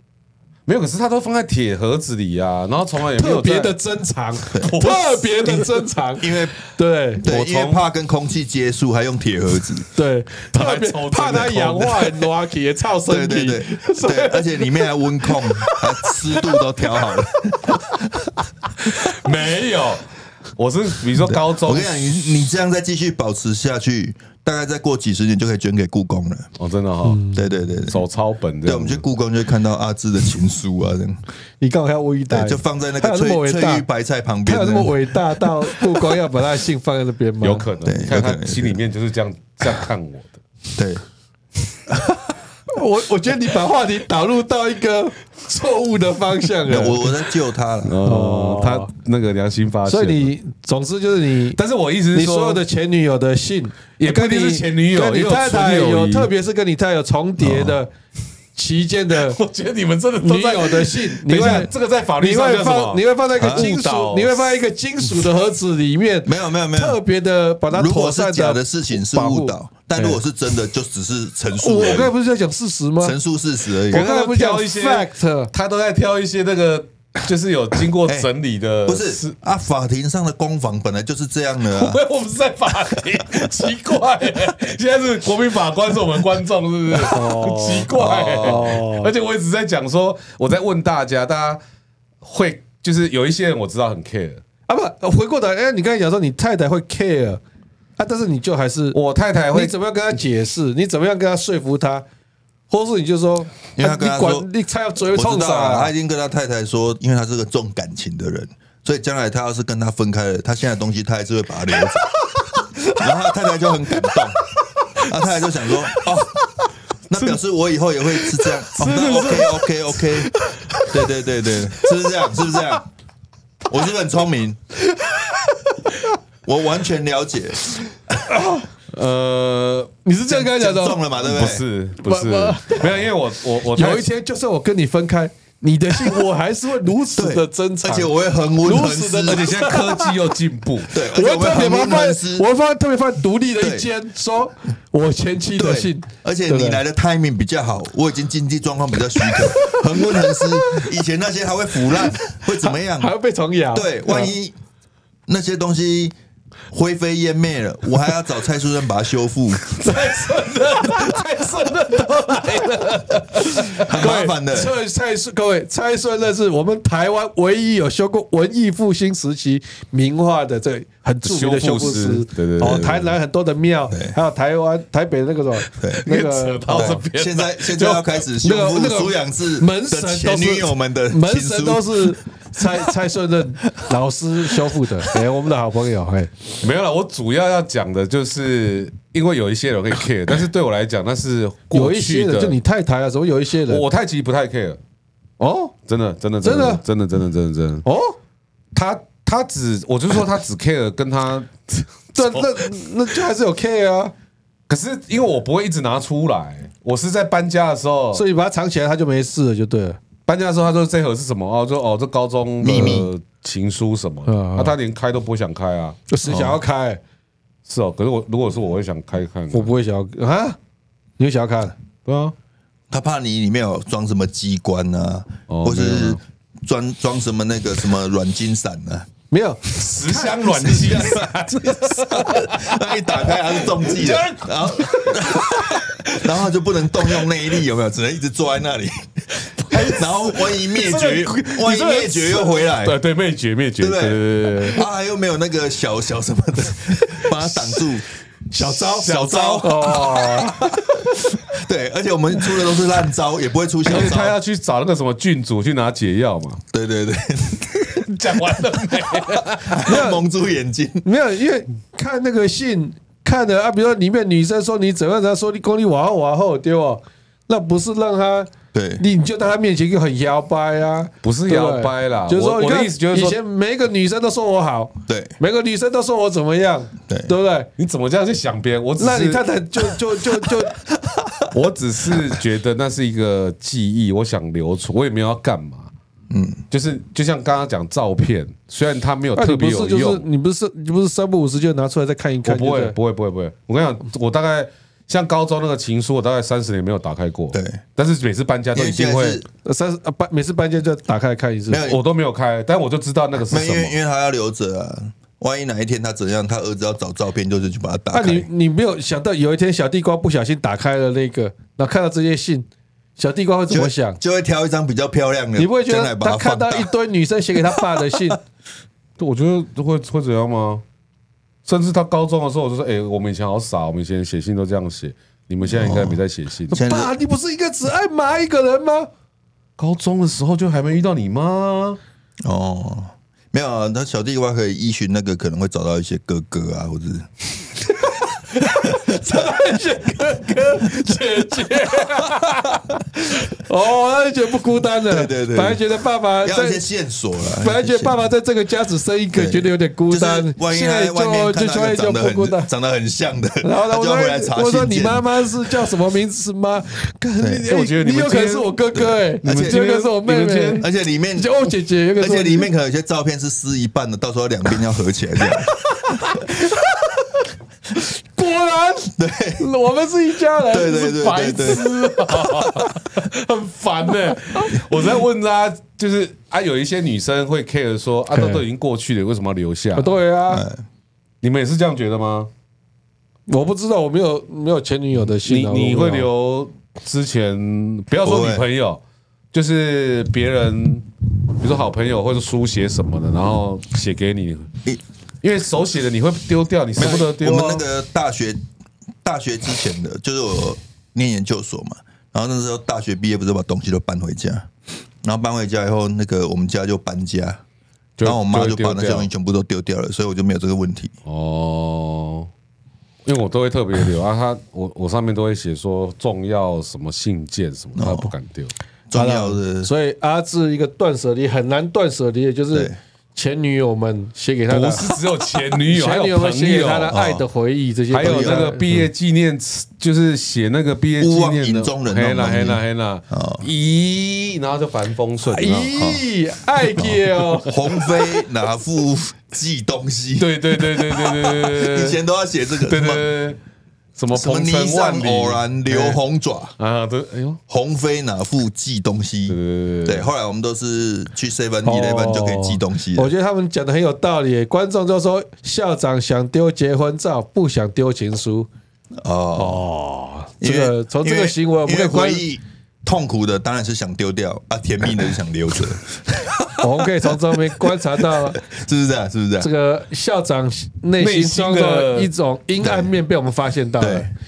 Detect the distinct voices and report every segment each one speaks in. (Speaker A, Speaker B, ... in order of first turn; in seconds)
Speaker A: 0.7-3.7, 4.5-5.7, 7.2-7.8, 10.5-12.3, 18.8-22.2, 26.6-27.2, 27.9-29.0, 37.4-40.4, 47.8-50.3, 51.5-52.6, 54.0-56.3, 59.1-64.6, 73.9-79.3, 81.7-91.6, 92.2-94.4, 98.9-99.7, 118.7-119.6, 128.9-129.9, 131.2-134.1, 139.2-140.9, 159.7-163.8, 171.2-173.1, 175.9-178.0, 186.6-192.6, 193.7-194.8, 195.9-197.8, 198.7-202.8, 204.7-208.2, 210.2-216.0, 217.7-219.7, 222.1-222.3, 225.5-226.2, 229.8-236.3, 239.7-240.0, 242.8-244.8, 249.1-249.7, 253.8-256.6, 258.0-260.0, 271.2-273.4, 277.8-279.4, 281.5-285.9, 286.7-290.2, 292.4-299.4, 301.9-303.9, 319.2-320.8, 321.6-326.8, 329.8-332.0, 357.6-358.7, 359.4-360.9, 371.1-380.1, 381.4-382.5, 385.4-389.0, 389.5-394.7, 395.4-397.9, 408.2-409.3, 411.2-412.5, 413.2-418.7, 424.7-427.1, 428.1-435.8, 440.4-442.2, 442.8-443.6, 444.1-446.2, 446.8-447.6, 449.5-450.3, 471.2-472.3
Speaker B: 3.2-7.2, 9.9-16.6, 27.0-27.6, 31.6-33.9, 34.5-37.7, 42.7-47.2, 48.0-48.9, 49.9-51.6, 52.1-57.9, 58.5-59.4, 60.2-70.2, 71.6-73.2, 73.9-75.5, 87.0-89.1, 94.7-97.4, 98.0-99.0, 99.5-102.0, 102.7-105.9, 111.8-115.0, 115.8-116.1, 119.1-119.5, 120.2-121.0, 121.7-122.8, 124.9-126.1, 128.3-128.7, 130.0-131.0, 132.0-140.1, 140.9-146.8, 149.2-150.9, 152.0-154.3, 159.8-161.7, 162.3-177.0, 178.4-186.3, 191.7-193.8, 195.4-195.7, 196.4-196.8, 197.8-198.2, 202.2-204.1, 208.1-210.0, 212.7-213.0, 214.3-214.8, 216.1-217.0, 219.5-220.6, 221.2-221.7, 229.3-231.1, 239.7-242.7, 248.5-251.4, 259.9-260.2, 261.0-277.7, 279.0-280.8, 289.4-292.9, 299.6-301.8, 308.1-312.7, 313.2-314.2, 315.6-318.4, 326.7-329.1, 338.0-346.8, 347.6-352.7, 353.6-362.7, 365.9-367.2, 367.9-371.9, 378.3-378.6, 379.9-380.6, 383.5-386.3, 419.1-425.1, 425.7-428.8, 435.6-438.0, 451.8-458.7, 459.6-462.4, 466.8-468.6, 469.6-474.3
Speaker C: 6.2-6.6, 7.2-9.9, 13.1-18.3, 21.2-26.5, 27.3-28.0, 28.6-31.2, 32.3-36.2, 37.8-38.8, 40.7-41.0, 41.9-42.2, 46.7-48.0, 57.4-57.8, 61.4-61.7, 63.3-63.7, 66.2-67.0, 67.7-72.1, 73.0-74.0, 78.0-78.3, 78.8-82.0, 87.9-88.7, 103.7-104.5, 105.0-112.1, 113.0-114.4, 115.0-116.4, 117.1-120.3, 120.9-122.8, 123.7-124.6, 126.4-128.2, 130.2-131.6, 137.2-139.5, 140.9-142.4, 143.6-143.9, 145.6-153.1, 153.7-154.6, 155.3-156.1, 156.7-159.6, 163.8-164.7, 173.9-174.2, 175.8-176.1, 176.7-182.2, 212.6-213.1, 216.2-216.6, 222.9-229.1, 230.2-243.0, 243.8-248.1, 248.6-250.8, 251.5-254.3, 256.7-258.0, 259.6-261.1, 268.7-269.0, 275.1-275.3, 281.1-281.5, 286.3-286.6, 297.5-297.8, 298.7-299.4, 301.7-302.0, 303.5-308.5, 313.7-316.9, 317.6-318.4, 325.6-327.1, 332.4-337.4, 338.6-339.8, 340.8-341.2, 345.1-345.9, 346.4-348.2, 349.3-355.9, 357.4-357.7, 358.9-359.8, 360.8-361.5, 362.1-365.7, 369.2-369.7, 370.6-371.8, 380.5-380.8, 388.2-388.6, 397.0-398.6, 399.2-404.7, 405.2-407.6, 408.2-411.1, 417.9-418.3, 419.1-419.9, 422.7-423.0, 427.1-427.4, 428.2-429.0, 431.2-433.6, 435.4-436.3, 436.9-443.2, 444.3-446.8, 447.7-453.3, 459.2-459.8, 460.6-469.7, 472.8-473.1, 474.0-474.3